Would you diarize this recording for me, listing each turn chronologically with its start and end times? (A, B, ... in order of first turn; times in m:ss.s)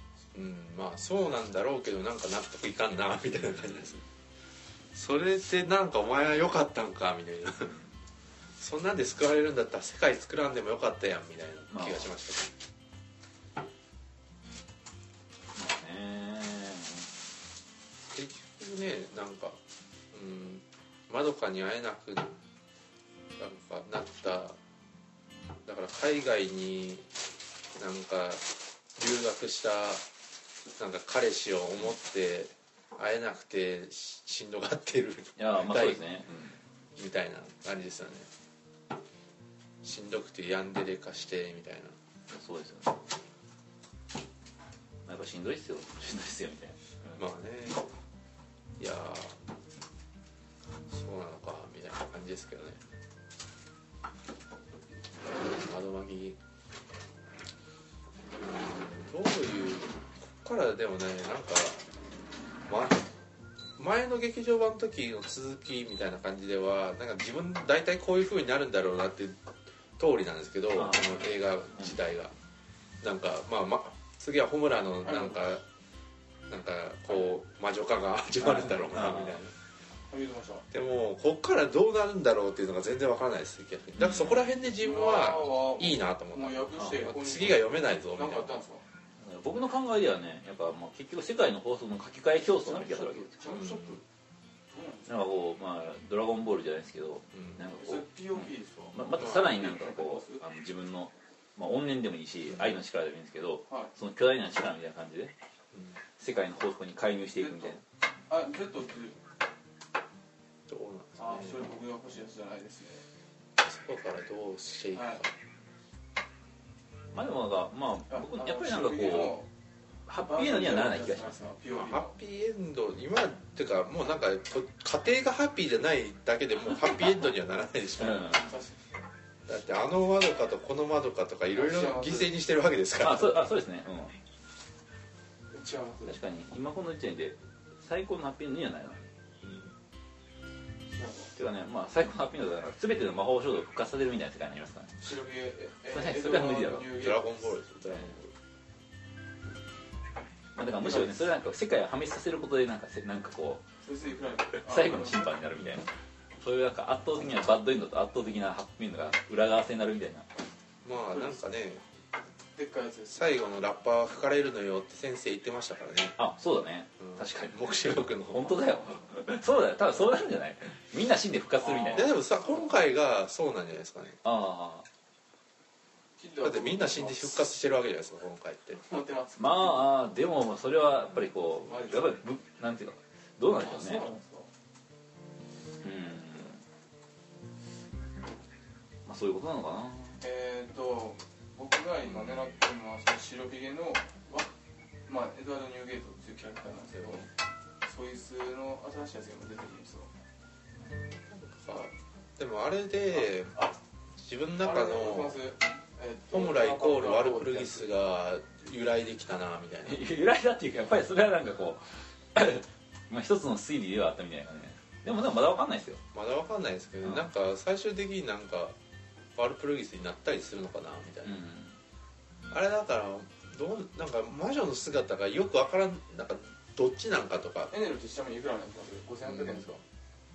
0:00.3-0:04.0 A
0:04.9-0:07.8 A
0:08.6-0:12.5 A
0:11.7-0:12.1 B
0:15.6-0:17.1 B
0:18.1-0:19.6 A
0:20.1-0:22.4 A
0:23.4-0:24.6 A
0:25.6-0:27.1 A
0:27.8-0:30.0 A
0:30.8-0:36.0 A
0:35.4-0:36.6 B
0:37.0-0:38.3 A
0:39.8-0:42.0 A
0:42.3-0:43.0 B
0:45.1-0:47.2 B
0:47.2-0:47.8 A
0:48.8-0:49.4 A
0:50.9-0:52.8 A
0:55.4-0:56.4 A
0:58.4-1:01.8 A
1:02.7-1:03.0 A
1:03.8-1:12.3 A
1:10.8-1:11.2 B
1:13.0-1:15.6 A
1:15.0-1:15.4 C
1:16.5-1:19.5 A
1:18.6-1:19.4 B
1:20.1-1:20.7 C
1:20.7-1:28.6 A
1:24.0-1:24.4 B
1:24.7-1:28.8 C
1:29.2-1:33.5 B
1:32.6-1:34.0 C
1:33.4-1:34.0 A
1:34.7-1:35.1 C
1:35.1-1:45.3 B
1:37.3-1:37.6 A
1:37.8-1:40.4 C
1:46.2-1:47.8 B
1:47.4-1:49.2 C
1:50.7-1:51.6 A
1:51.2-1:53.0 C
1:53.6-1:55.3 A
1:54.9-1:55.2 C
1:57.1-1:59.4 B
1:58.1-1:59.5 C
2:00.1-2:01.4 B
2:00.2-2:02.1 C
2:01.7-2:08.4 A
2:08.0-2:08.5 B
2:08.4-2:08.8 C
2:09.5-2:13.4 A
2:11.5-2:12.3 C
2:13.0-2:14.2 B
2:15.5-2:16.2 C
2:16.1-2:19.1 B
2:19.4-2:19.7 A
2:20.9-2:21.3 C
2:21.4-2:25.0 B
2:25.0-2:27.4 C
2:25.9-2:27.0 B
2:26.9-2:28.3 A
2:30.6-2:33.6 B
2:30.8-2:31.2 C
2:33.8-2:35.3 C
2:34.5-2:35.9 B
2:36.4-2:40.3 B
2:40.8-2:41.8 A
2:41.1-2:41.4 C
2:42.6-2:43.3 C
2:43.1-2:46.2 A
2:46.2-2:52.1 B
2:47.0-2:48.6 A
2:51.6-2:52.8 C
2:51.9-2:54.2 A
2:54.2-2:54.9 B
2:56.2-2:57.4 C
2:56.4-2:58.8 A
2:58.8-2:59.9 C
2:59.4-3:04.1 B
3:01.6-3:02.2 C
3:03.5-3:04.5 C
3:05.8-3:06.6 B
3:09.1-3:10.2 B
3:10.2-3:14.5 C
3:15.1-3:17.3 C
3:17.8-3:20.1 C
3:21.4-3:25.4 A
3:24.6-3:27.9 C
3:26.3-3:30.0 A
3:29.8-3:36.0 B
3:36.1-3:38.8 A
3:39.4-3:41.4 A
3:41.2-3:41.8 B
3:42.5-3:47.7 A
3:47.7-3:49.8 C
3:49.3-3:49.7 A